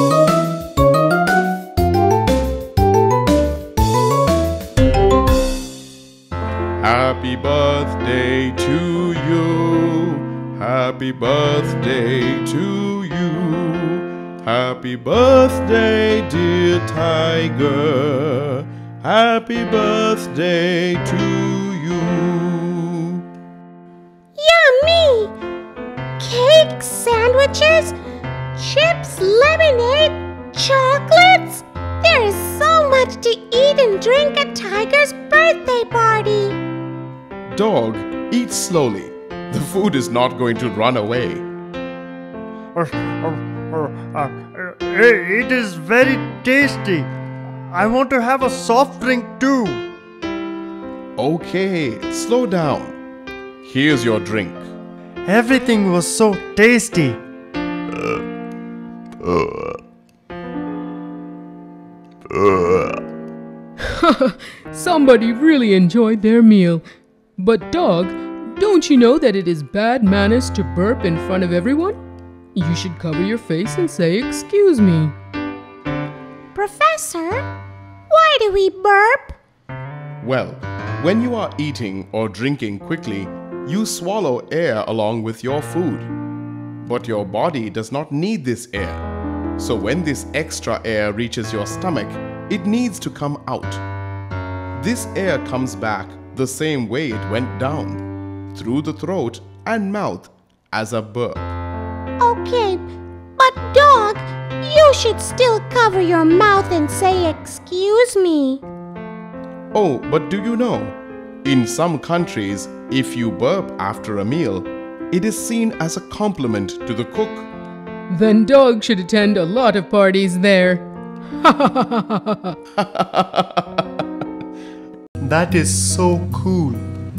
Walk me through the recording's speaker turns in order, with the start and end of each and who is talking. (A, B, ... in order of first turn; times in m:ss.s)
0:06.8-0:23.2 A
0:24.4-0:25.3 B
0:26.2-0:28.0 B
0:28.6-0:36.6 B
0:37.5-0:41.5 A
0:42.7-0:47.1 C
0:47.7-0:49.8 C
0:51.2-0:53.0 A
0:53.6-0:54.7 A
0:55.2-0:57.2 C
1:03.8-1:06.8 D
1:07.4-1:12.0 D
1:12.6-1:15.1 D
1:16.5-1:17.5 B
1:18.1-1:19.4 B
1:20.2-1:26.1 A
1:26.8-1:29.1 A
1:29.6-1:33.8 A
1:34.8-1:41.6 A
1:42.2-1:42.8 B
1:43.4-1:48.6 B
1:49.7-1:57.5 A
1:58.1-2:00.8 D
2:01.4-2:02.6 D
2:02.8-2:03.8 A
2:05.2-2:06.9 C